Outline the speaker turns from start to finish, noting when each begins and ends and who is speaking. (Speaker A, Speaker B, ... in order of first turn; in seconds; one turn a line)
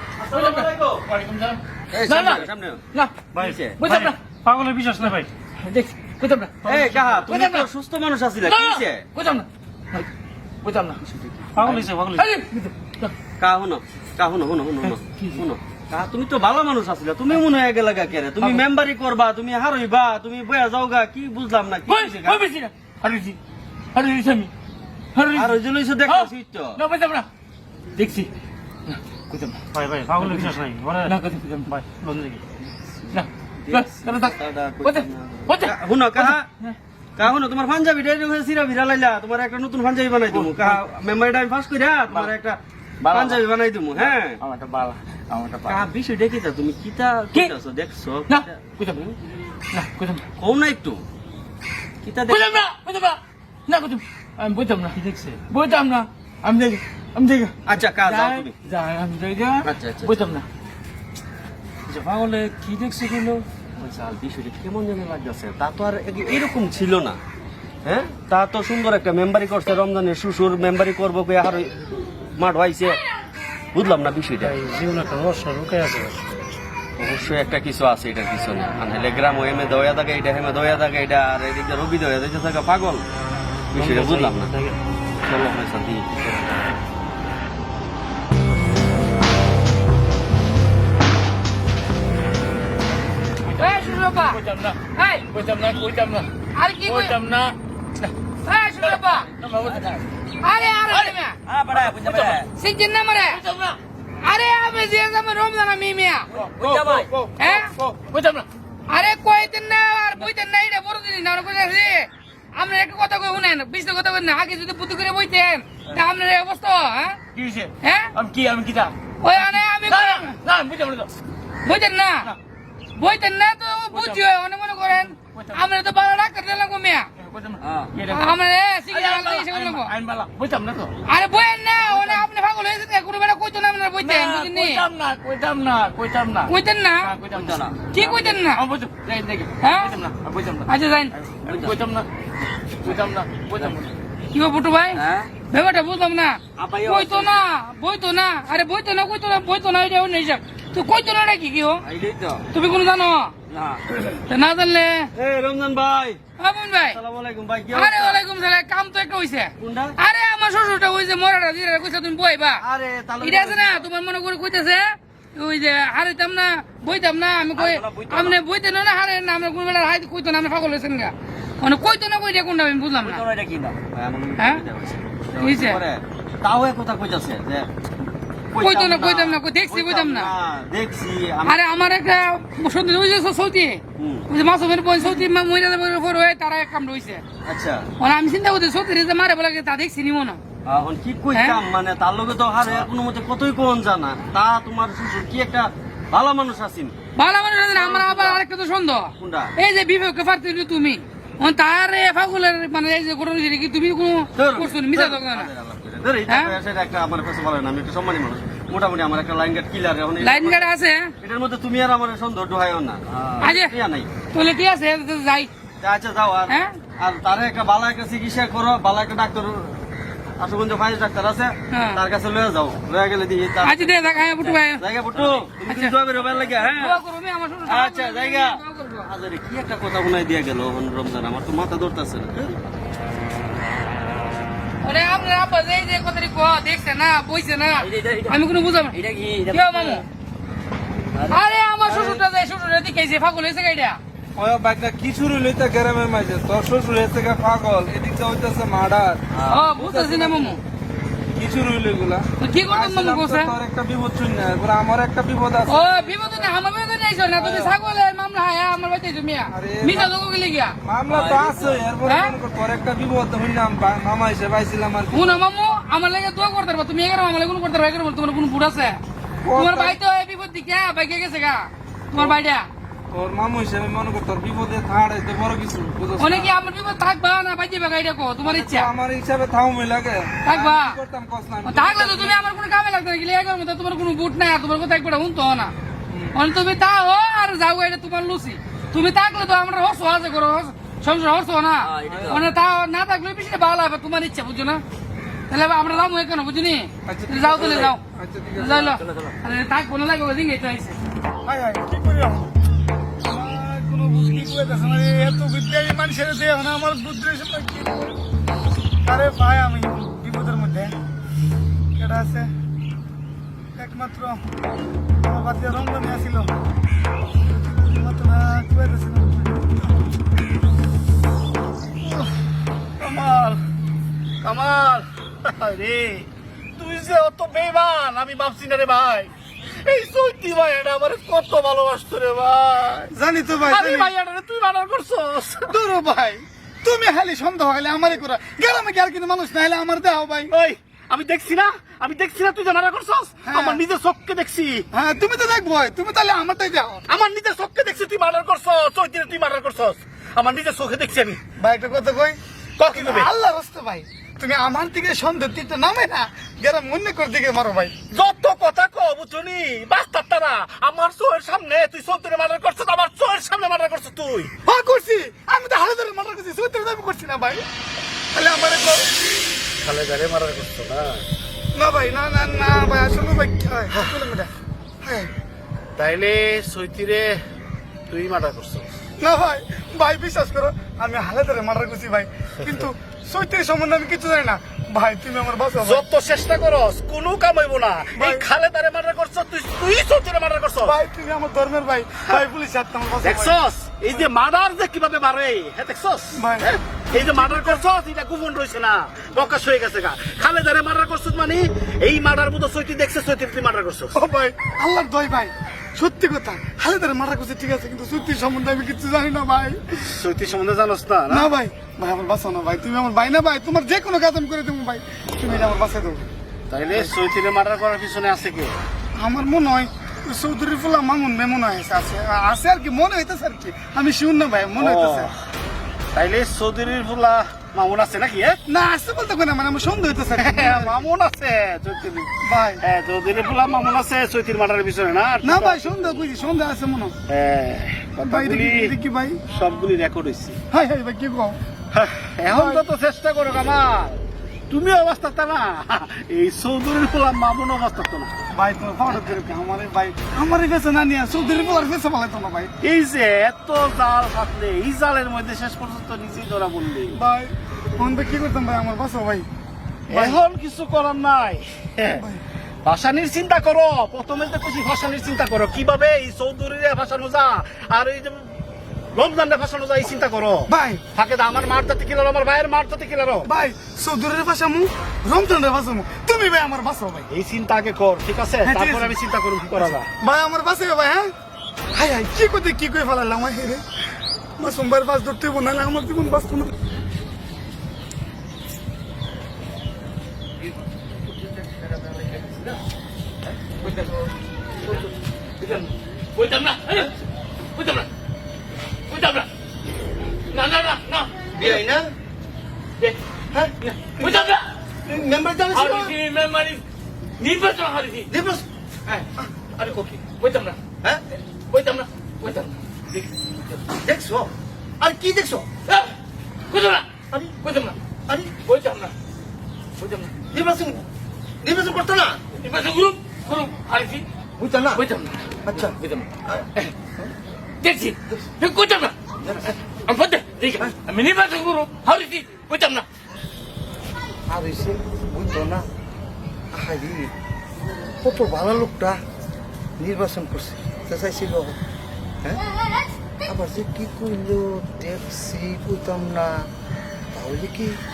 Speaker A: 0.2-1.0
Speaker B: 0.3-7.7
Speaker A: 1.9-2.8
Speaker A: 3.3-4.1
Speaker C: 3.4-5.3
Speaker A: 6.6-9.0
Speaker B: 8.4-10.1
Speaker B: 10.6-11.0
Speaker A: 11.1-11.9
Speaker B: 11.5-13.1
Speaker C: 11.7-12.2
Speaker A: 13.4-22.5
Speaker B: 14.8-15.4
Speaker B: 18.4-18.6
Speaker B: 21.9-23.4
Speaker B: 23.9-24.5
Speaker B: 25.1-27.3
Speaker A: 25.3-26.8
Speaker B: 27.9-28.3
Speaker B: 28.9-29.6
Speaker C: 29.7-31.2
Speaker B: 30.1-32.1
Speaker C: 31.7-32.3
Speaker A: 33.1-36.5
Speaker B: 33.1-36.8
Speaker A: 37.2-44.4
Speaker B: 40.3-40.8
Speaker B: 43.1-45.9
Speaker A: 45.6-49.1
Speaker B: 48.3-49.0
Speaker B: 49.7-50.2
Speaker A: 50.4-51.0
Speaker A: 52.0-52.6
Speaker B: 52.3-60.5
Speaker A: 57.6-58.5
Speaker A: 59.6-60.2
Speaker A: 61.9-67.2
Speaker B: 62.1-63.3
Speaker A: 67.8-71.7
Speaker A: 72.3-73.0
Speaker A: 73.7-74.7
Speaker C: 74.4-76.2
Speaker A: 77.0-83.0
Speaker A: 83.7-84.5
Speaker B: 83.8-84.4
Speaker C: 83.8-84.7
Speaker A: 85.2-86.7
Speaker B: 93.5-94.8
Speaker D: 93.6-94.4
Speaker D: 95.0-95.2
Speaker B: 95.3-96.3
Speaker D: 96.5-97.2
Speaker B: 96.8-98.1
Speaker D: 98.5-99.3
Speaker B: 98.8-100.0
Speaker D: 100.4-101.3
Speaker B: 100.9-102.5
Speaker A: 101.5-102.5
Speaker D: 102.6-103.4
Speaker B: 103.3-103.8
Speaker D: 104.2-106.3
Speaker B: 106.3-108.5
Speaker A: 106.6-107.1
Speaker D: 107.4-107.7
Speaker D: 108.9-117.2
Speaker B: 117.3-121.1
Speaker D: 117.8-118.1
Speaker D: 119.2-120.3
Speaker D: 121.6-122.3
Speaker D: 123.0-127.1
Speaker B: 123.9-124.2
Speaker B: 125.1-125.6
Speaker B: 127.2-128.3
Speaker A: 127.6-127.9
Speaker D: 128.1-129.9
Speaker B: 128.9-130.9
Speaker D: 131.1-134.8
Speaker B: 131.8-132.2
Speaker B: 134.0-136.5
Speaker D: 136.5-137.1
Speaker B: 137.0-140.7
Speaker A: 137.3-138.0
Speaker D: 137.9-138.6
Speaker D: 139.6-139.9
Speaker D: 140.7-141.1
Speaker B: 141.4-142.1
Speaker A: 141.4-141.8
Speaker B: 142.8-143.9
Speaker D: 144.3-151.8
Speaker A: 144.9-145.3
Speaker A: 146.6-147.3
Speaker A: 151.8-152.4
Speaker D: 152.5-153.3
Speaker A: 153.5-154.2
Speaker D: 154.3-155.1
Speaker A: 155.1-156.2
Speaker D: 156.4-157.0
Speaker A: 156.8-158.2
Speaker D: 157.7-162.6
Speaker A: 159.6-159.9
Speaker A: 162.6-163.9
Speaker D: 163.2-173.2
Speaker A: 167.6-168.4
Speaker A: 173.0-177.7
Speaker D: 174.4-174.6
Speaker D: 175.4-175.8
Speaker A: 178.5-181.6
Speaker D: 178.6-180.3
Speaker D: 181.4-187.2
Speaker A: 184.0-184.3
Speaker A: 185.0-185.3
Speaker A: 187.4-187.8
Speaker D: 188.0-190.4
Speaker A: 190.6-196.9
Speaker D: 191.3-191.6
Speaker D: 197.2-205.5
Speaker A: 197.7-198.4
Speaker A: 199.2-199.5
Speaker A: 204.3-214.1
Speaker D: 206.3-206.6
Speaker D: 210.2-211.1
Speaker D: 213.4-213.7
Speaker D: 214.3-215.5
Speaker A: 215.8-219.8
Speaker A: 220.4-227.0
Speaker D: 221.7-222.0
Speaker D: 223.6-226.0
Speaker D: 226.8-229.1
Speaker A: 227.7-232.5
Speaker D: 234.8-239.0
Speaker A: 237.8-238.4
Speaker A: 238.9-240.0
Speaker D: 239.5-240.0
Speaker A: 241.1-241.4
Speaker D: 241.3-244.0
Speaker E: 244.4-250.6
Speaker D: 249.5-250.6
Speaker E: 251.3-256.5
Speaker D: 252.4-253.5
Speaker D: 255.7-260.7
Speaker E: 257.4-257.7
Speaker E: 259.5-260.1
Speaker E: 260.8-265.4
Speaker D: 262.0-262.3
Speaker D: 265.1-269.0
Speaker E: 269.4-270.0
Speaker D: 269.5-272.7
Speaker E: 273.1-276.5
Speaker D: 276.2-278.9
Speaker E: 278.4-282.4
Speaker D: 280.4-281.0
Speaker D: 281.6-285.7
Speaker D: 286.3-294.8
Speaker A: 291.8-292.4
Speaker D: 295.5-298.0
Speaker E: 297.1-298.9
Speaker D: 298.6-301.0
Speaker A: 298.9-299.3
Speaker F: 301.4-302.5
Speaker F: 303.2-308.1
Speaker F: 309.0-310.9
Speaker F: 312.0-312.5
Speaker F: 313.8-314.4
Speaker F: 315.2-316.5
Speaker F: 317.6-319.8
Speaker G: 323.0-323.6
Speaker G: 324.4-326.2
Speaker G: 326.8-329.3
Speaker G: 329.8-335.7
Speaker F: 333.1-334.1
Speaker F: 335.7-340.5
Speaker G: 340.5-344.8
Speaker F: 343.4-343.8
Speaker F: 344.9-347.0
Speaker G: 347.1-351.4
Speaker F: 351.6-352.4
Speaker G: 352.8-353.3
Speaker F: 352.9-357.9
Speaker G: 358.1-364.5
Speaker F: 364.6-367.6
Speaker F: 368.3-369.1
Speaker H: 369.9-371.0
Speaker G: 369.9-370.9
Speaker F: 371.8-374.5
Speaker F: 375.0-375.3
Speaker G: 376.0-377.4
Speaker G: 378.1-378.9
Speaker F: 379.2-386.1
Speaker G: 385.8-390.9
Speaker F: 388.2-388.5
Speaker F: 390.8-393.6
Speaker G: 393.2-404.1
Speaker F: 396.4-397.8
Speaker F: 404.1-409.8
Speaker G: 410.1-411.5
Speaker F: 411.3-416.2
Speaker G: 416.7-418.7
Speaker F: 419.2-425.3
Speaker G: 424.8-425.3
Speaker G: 426.1-428.6
Speaker F: 428.7-431.0
Speaker G: 430.4-432.3
Speaker F: 432.4-432.8
Speaker G: 432.8-436.2
Speaker F: 435.4-437.1
Speaker G: 437.3-438.9
Speaker F: 438.2-439.4
Speaker G: 439.4-440.6
Speaker F: 440.7-441.6
Speaker G: 441.9-448.3
Speaker F: 442.5-442.8
Speaker F: 448.5-452.7
Speaker G: 449.1-449.4
Speaker G: 452.8-457.1
Speaker F: 457.1-459.4
Speaker G: 460.1-462.2
Speaker F: 460.1-460.4
Speaker G: 462.8-468.5
Speaker G: 469.1-473.5
Speaker F: 470.7-471.0
Speaker F: 473.4-477.3
Speaker G: 477.3-480.1
Speaker F: 478.6-479.1
Speaker F: 479.8-481.3
Speaker F: 481.9-483.8
Speaker F: 484.6-486.7
Speaker B: 491.8-492.8
Speaker B: 493.8-494.2
Speaker B: 495.6-497.1
Speaker B: 497.7-498.1
Speaker B: 499.1-499.5
Speaker B: 500.5-501.8
Speaker H: 501.6-502.1
Speaker H: 503.5-504.5
Speaker B: 503.8-504.6
Speaker H: 505.1-506.1
Speaker B: 505.7-506.8
Speaker B: 507.4-508.3
Speaker H: 508.3-508.6
Speaker H: 509.4-510.2
Speaker B: 510.3-510.8
Speaker B: 511.7-513.8
Speaker H: 514.0-515.6
Speaker B: 516.7-517.0
Speaker B: 517.6-517.9
Speaker B: 518.6-519.1
Speaker B: 520.0-520.3
Speaker H: 520.5-521.0
Speaker H: 521.6-522.4
Speaker B: 522.6-524.2
Speaker H: 524.6-525.0
Speaker B: 524.9-526.3
Speaker H: 525.6-525.9
Speaker B: 527.8-529.1
Speaker B: 530.1-533.0
Speaker H: 534.5-535.8
Speaker H: 536.7-537.3
Speaker H: 538.2-539.2
Speaker H: 540.0-541.8
Speaker H: 543.4-546.5
Speaker H: 547.3-548.0